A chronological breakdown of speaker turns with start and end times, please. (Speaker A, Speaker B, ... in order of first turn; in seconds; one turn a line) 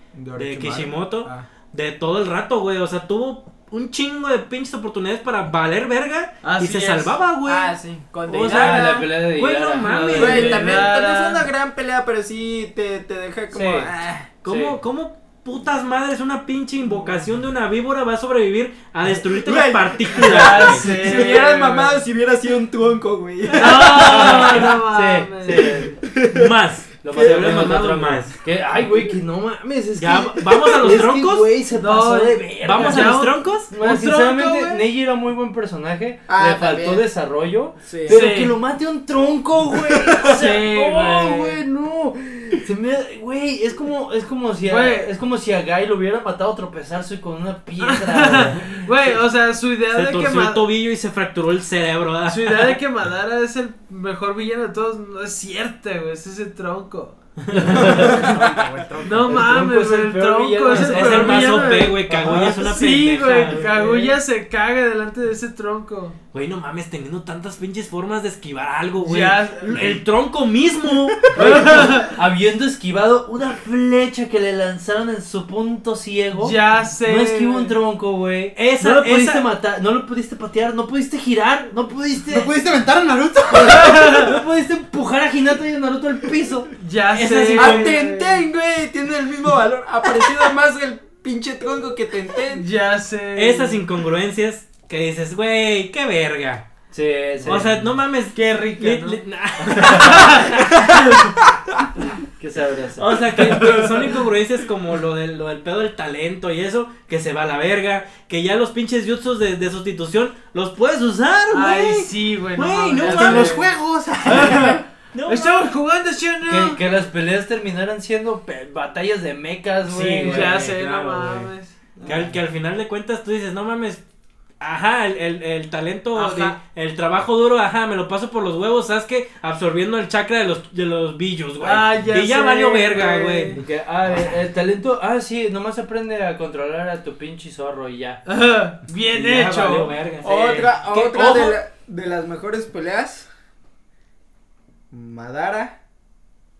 Speaker A: 0.1-1.5
Speaker B: 0.4-10.8
Speaker C: 6.4-7.2
Speaker A: 7.4-9.1
Speaker D: 8.4-10.9
Speaker C: 9.8-11.5
Speaker A: 10.2-14.3
Speaker D: 13.5-13.9
Speaker B: 14.4-21.0
Speaker D: 14.4-14.8
Speaker A: 19.2-24.4
Speaker C: 20.2-22.0
Speaker C: 23.6-26.0
Speaker D: 23.8-26.0
Speaker B: 24.3-24.6
Speaker A: 26.0-26.5
Speaker B: 26.3-28.4
Speaker D: 27.0-49.1
Speaker A: 27.1-27.8
Speaker B: 30.0-31.5
Speaker A: 30.5-30.9
Speaker C: 31.8-34.8
Speaker B: 32.6-33.7
Speaker A: 36.3-37.0
Speaker A: 37.8-38.2
Speaker C: 38.1-38.6
Speaker C: 40.3-41.6
Speaker C: 44.6-45.1
Speaker C: 47.9-50.6
Speaker B: 49.9-52.8
Speaker C: 52.3-57.2
Speaker B: 57.4-58.3
Speaker D: 57.5-58.3
Speaker C: 57.8-58.3
Speaker E: 57.9-59.5
Speaker C: 59.0-66.2
Speaker D: 59.2-61.5
Speaker B: 60.7-63.7
Speaker D: 63.5-64.2
Speaker B: 66.3-71.4
Speaker C: 69.0-70.0
Speaker C: 71.2-72.2
Speaker D: 71.3-82.5
Speaker C: 76.3-77.8
Speaker B: 78.5-79.5
Speaker E: 82.3-84.2
Speaker D: 83.5-86.7
Speaker C: 83.9-84.2
Speaker C: 86.8-88.5
Speaker B: 87.1-88.0
Speaker A: 87.5-92.7
Speaker C: 92.5-93.8
Speaker B: 93.3-96.7
Speaker D: 96.9-97.8
Speaker B: 97.5-101.4
Speaker C: 98.3-99.2
Speaker C: 99.7-100.5
Speaker D: 102.4-103.3
Speaker B: 103.0-113.7
Speaker A: 103.6-103.9
Speaker C: 111.5-113.7
Speaker E: 113.1-114.8
Speaker B: 114.2-115.7
Speaker C: 114.2-116.8
Speaker D: 116.5-121.4
Speaker B: 119.9-121.5
Speaker C: 120.2-121.9
Speaker B: 122.0-124.0
Speaker B: 124.6-133.6
Speaker C: 126.1-126.6
Speaker C: 131.6-133.6
Speaker D: 133.6-138.2
Speaker C: 138.2-140.0
Speaker B: 139.1-141.6
Speaker A: 140.2-143.3
Speaker A: 144.9-145.8